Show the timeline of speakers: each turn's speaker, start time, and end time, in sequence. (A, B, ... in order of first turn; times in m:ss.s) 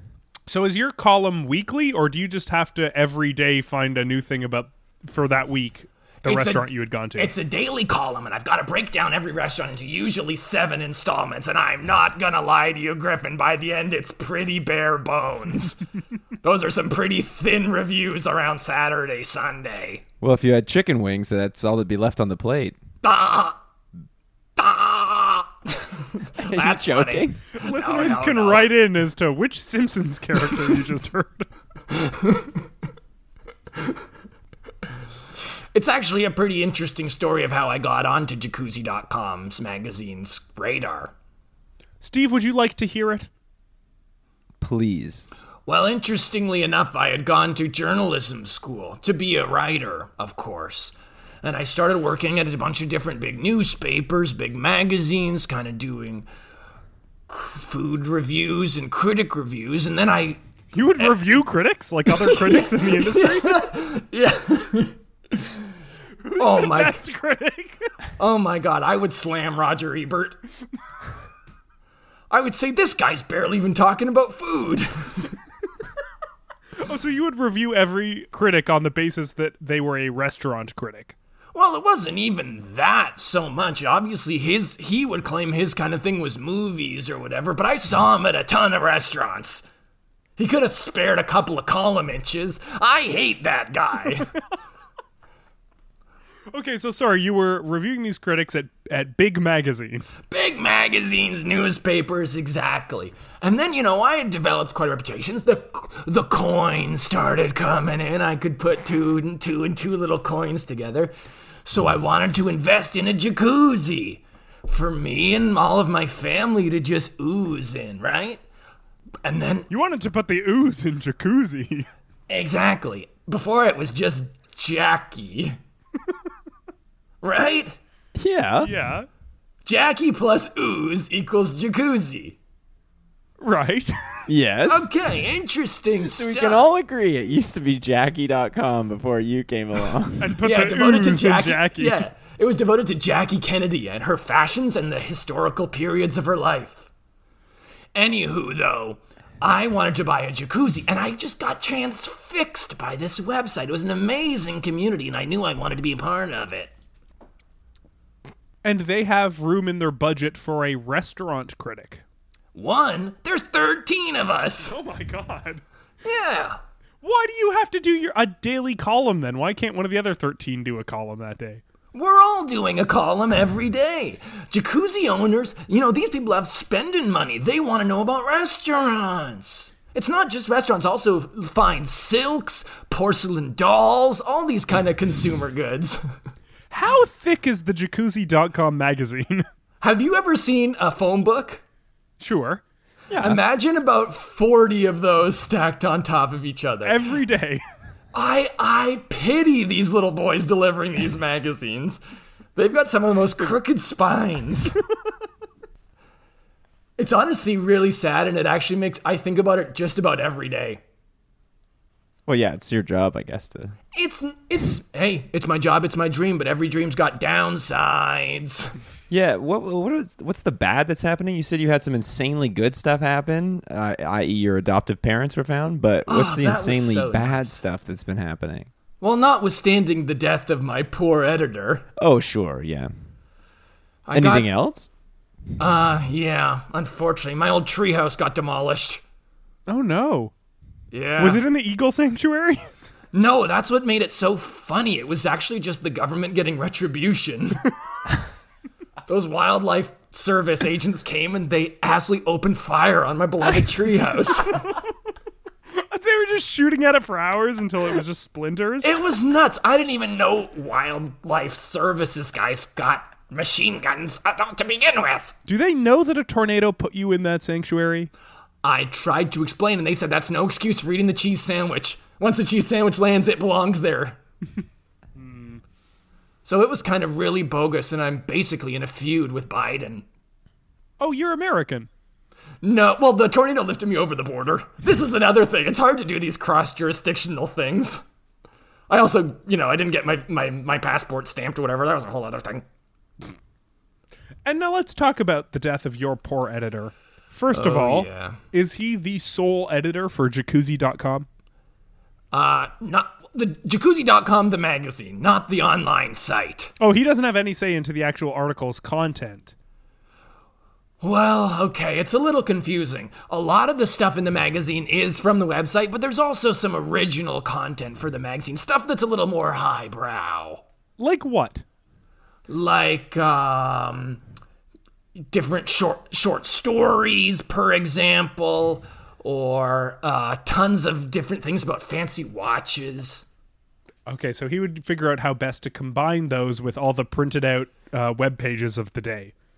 0:00.5-0:07.3 A
0:06.2-0:15.8 B
0:16.4-0:20.0 B
0:20.2-0:22.8 C
0:23.0-0:23.6 B
0:24.6-0:28.7 B
0:26.4-0:27.4 C
0:27.5-0:31.4 A
0:32.0-0:32.5 B
0:35.7-0:41.1 B
0:42.0-0:43.3 A
0:44.6-0:45.3 C
0:45.6-0:56.3 B
0:57.3-1:00.4 B
1:00.7-1:03.7 A
1:01.0-1:01.3 B
1:02.1-1:05.6 B
1:06.2-1:07.9 A
1:06.4-1:07.0 B
1:08.2-1:10.4 B
1:12.3-1:15.2 B
1:16.8-1:21.1 A
1:21.5-1:29.6 B
1:30.4-1:34.3 B
1:36.5-1:40.1 A
1:40.3-1:51.1 B
1:51.6-1:58.4 B
1:59.2-1:59.7 B
1:59.7-2:01.9 A
2:02.3-2:05.6 B
2:07.2-2:07.8 B
2:08.2-2:08.7 C
2:08.6-2:09.1 A
2:09.6-2:12.4 B
2:13.4-2:13.9 A
2:14.3-2:14.9 C
2:14.7-2:16.6 B
2:16.0-2:20.3 C
2:20.2-2:22.0 A
2:20.4-2:26.9 B
2:27.9-2:36.7 B
2:38.6-2:42.0 A
2:42.5-2:44.8 B
2:44.7-2:45.6 A
2:46.0-2:46.6 B
2:47.0-2:51.6 A
2:51.9-3:06.0 B
3:06.7-3:09.4 A
3:09.8-3:11.6 B
3:12.2-3:12.6 A
3:13.1-3:13.4 C
3:13.2-3:17.1 B
3:16.8-3:17.6 A
3:18.1-3:22.0 B
3:22.6-3:24.8 B
3:27.0-3:30.8 B
3:32.3-3:33.7 C
3:33.9-3:38.8 B
3:39.1-3:48.7 C
3:46.1-3:47.6 B
3:49.0-3:51.9 B
3:52.0-3:52.9 C
3:54.0-3:54.5 B
3:54.1-3:54.9 C
3:55.6-3:59.0 B
3:59.7-4:00.3 A
4:00.9-4:01.4 B
4:01.2-4:02.6 A
4:03.1-4:07.7 B
4:09.1-4:14.7 B
4:15.7-4:19.0 A
4:18.8-4:25.3 B
4:25.4-4:28.1 A
4:28.6-4:34.2 B
4:35.2-4:35.6 A
4:36.4-4:40.0 B
4:41.0-4:41.9 A
4:42.6-4:48.0 B
4:48.9-4:52.6 B
4:54.4-5:01.2 A
4:57.5-4:58.4 B
5:02.3-5:06.7 B
5:06.8-5:09.5 A
5:11.0-5:20.6 B
5:21.0-5:21.6 A
5:22.5-5:24.2 B
5:25.3-5:33.2 B
5:34.1-5:39.3 A